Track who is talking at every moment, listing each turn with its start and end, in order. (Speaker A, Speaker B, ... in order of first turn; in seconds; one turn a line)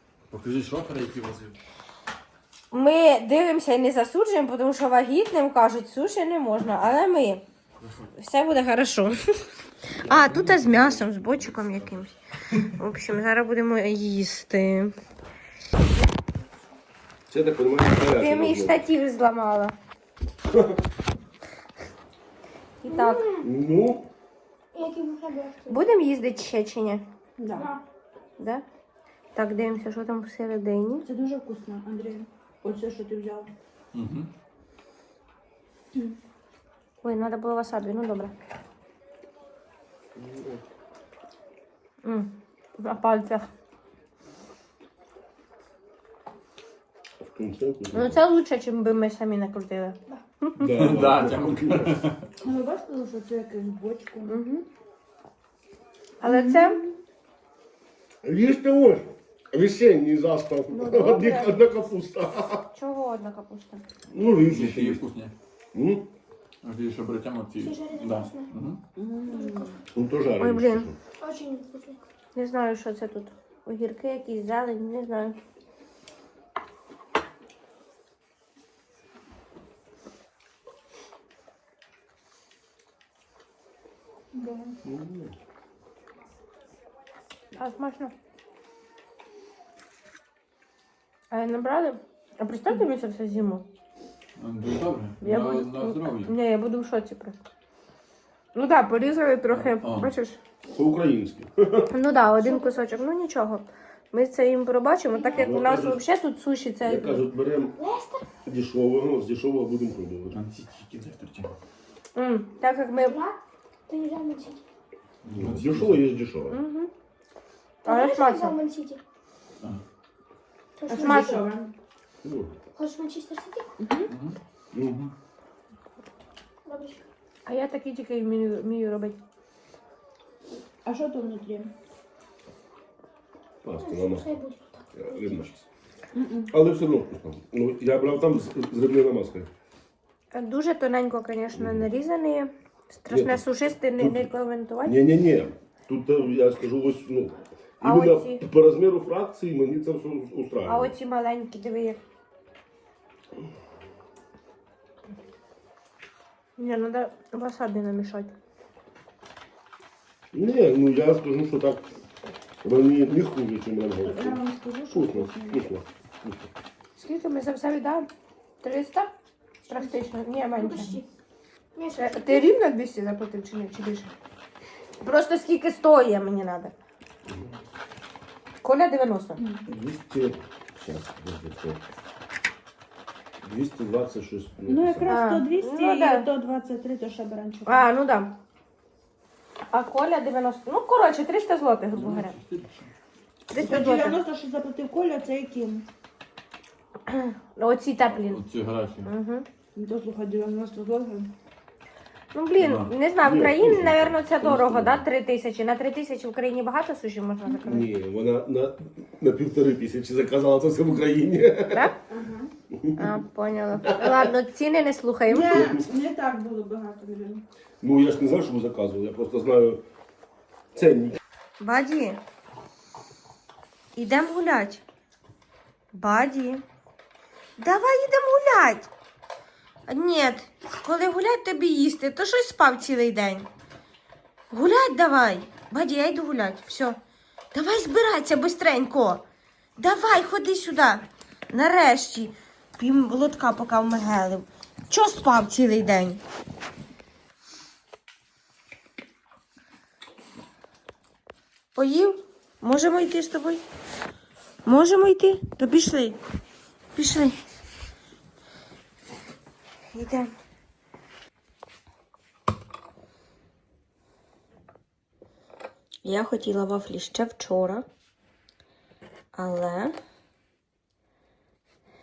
Speaker A: 0.3-1.5
Speaker B: 2.7-7.5
Speaker B: 8.2-9.2
Speaker B: 10.0-14.9
Speaker A: 10.1-10.9
Speaker C: 17.3-18.8
Speaker B: 18.1-19.7
Speaker C: 20.5-20.8
Speaker B: 22.8-23.3
Speaker D: 22.9-23.4
Speaker C: 23.4-24.1
Speaker D: 24.7-25.8
Speaker B: 25.7-27.1
Speaker E: 27.4-27.8
Speaker D: 27.5-27.8
Speaker B: 28.4-28.6
Speaker B: 29.4-31.1
Speaker E: 31.0-33.5
Speaker A: 33.9-34.3
Speaker B: 37.0-38.4
Speaker C: 40.1-40.6
Speaker B: 42.0-43.5
Speaker C: 47.2-48.2
Speaker B: 47.9-50.9
Speaker C: 50.6-52.0
Speaker A: 50.6-52.3
Speaker E: 52.4-54.4
Speaker B: 54.3-54.6
Speaker B: 56.2-56.8
Speaker E: 56.2-57.0
Speaker C: 58.2-62.7
Speaker B: 60.7-61.6
Speaker B: 62.7-63.8
Speaker C: 64.1-65.0
Speaker A: 64.5-65.3
Speaker C: 65.7-66.1
Speaker A: 66.6-68.8
Speaker D: 67.6-68.5
Speaker E: 69.0-69.8
Speaker D: 69.3-69.8
Speaker C: 69.9-71.0
Speaker B: 70.4-70.9
Speaker D: 71.2-72.1
Speaker B: 72.3-75.4
Speaker E: 84.3-84.8
Speaker C: 84.8-85.3
Speaker B: 87.5-88.1
Speaker B: 91.3-93.7
Speaker A: 94.4-96.3
Speaker B: 95.2-97.4
Speaker B: 98.5-100.4
Speaker A: 99.5-100.1
Speaker C: 100.7-101.9
Speaker B: 101.9-107.2
Speaker D: 102.4-103.0
Speaker D: 105.1-105.5
Speaker C: 105.3-106.0
Speaker C: 106.8-107.8
Speaker D: 107.8-108.2
Speaker C: 108.5-110.4
Speaker A: 110.3-111.5
Speaker B: 112.2-113.2
Speaker D: 113.0-114.6
Speaker A: 115.2-116.0
Speaker C: 115.3-116.6
Speaker B: 116.5-116.9
Speaker D: 117.8-119.0
Speaker B: 117.9-118.5
Speaker D: 120.8-121.5
Speaker E: 120.9-121.7
Speaker B: 121.0-121.4
Speaker C: 122.2-122.5
Speaker D: 122.8-123.7
Speaker E: 123.8-124.1
Speaker A: 124.1-125.1
Speaker C: 124.7-125.0
Speaker D: 126.7-127.0
Speaker B: 127.5-129.2
Speaker E: 130.8-131.7
Speaker C: 133.6-134.3
Speaker D: 133.8-135.4
Speaker C: 134.9-135.7
Speaker E: 136.1-136.5
Speaker C: 136.5-139.5
Speaker B: 140.3-145.0
Speaker C: 141.5-141.9
Speaker C: 143.1-143.4
Speaker C: 144.0-144.3
Speaker C: 144.8-150.9
Speaker B: 147.8-148.4
Speaker B: 150.7-152.0
Speaker B: 156.6-158.3
Speaker C: 160.3-161.8
Speaker C: 162.6-166.5
Speaker E: 164.1-165.7
Speaker B: 167.0-168.1
Speaker B: 168.6-169.1
Speaker B: 169.7-171.0
Speaker D: 170.6-171.0
Speaker D: 171.8-172.6
Speaker B: 172.0-174.1
Speaker B: 175.0-176.7
Speaker C: 177.3-177.5
Speaker B: 178.6-179.4
Speaker E: 179.4-179.6
Speaker C: 179.7-181.8
Speaker C: 183.4-185.2
Speaker E: 184.7-187.9
Speaker B: 185.1-186.3
Speaker B: 187.7-188.4
Speaker B: 189.7-192.3
Speaker A: 191.9-192.9
Speaker B: 193.5-194.2
Speaker E: 193.6-195.9
Speaker B: 197.1-198.4
Speaker A: 198.1-199.1
Speaker B: 199.1-199.5
Speaker E: 199.8-201.3
Speaker B: 202.3-207.9
Speaker A: 202.6-202.9
Speaker C: 203.2-205.1
Speaker C: 207.6-211.9
Speaker E: 212.1-212.5
Speaker C: 212.7-213.1
Speaker B: 213.0-215.7
Speaker C: 213.8-214.2
Speaker E: 215.3-217.4
Speaker C: 215.4-215.9
Speaker C: 217.8-219.8
Speaker C: 220.7-221.2
Speaker B: 221.6-222.2
Speaker B: 223.9-224.8
Speaker B: 225.9-226.6
Speaker B: 227.6-228.9
Speaker B: 229.9-233.5
Speaker B: 234.5-237.0
Speaker B: 237.5-239.2
Speaker B: 239.8-246.2
Speaker B: 251.8-253.6
Speaker B: 254.7-256.2
Speaker B: 256.9-257.4
Speaker B: 259.9-260.3
Speaker B: 266.1-267.9
Speaker B: 269.3-269.9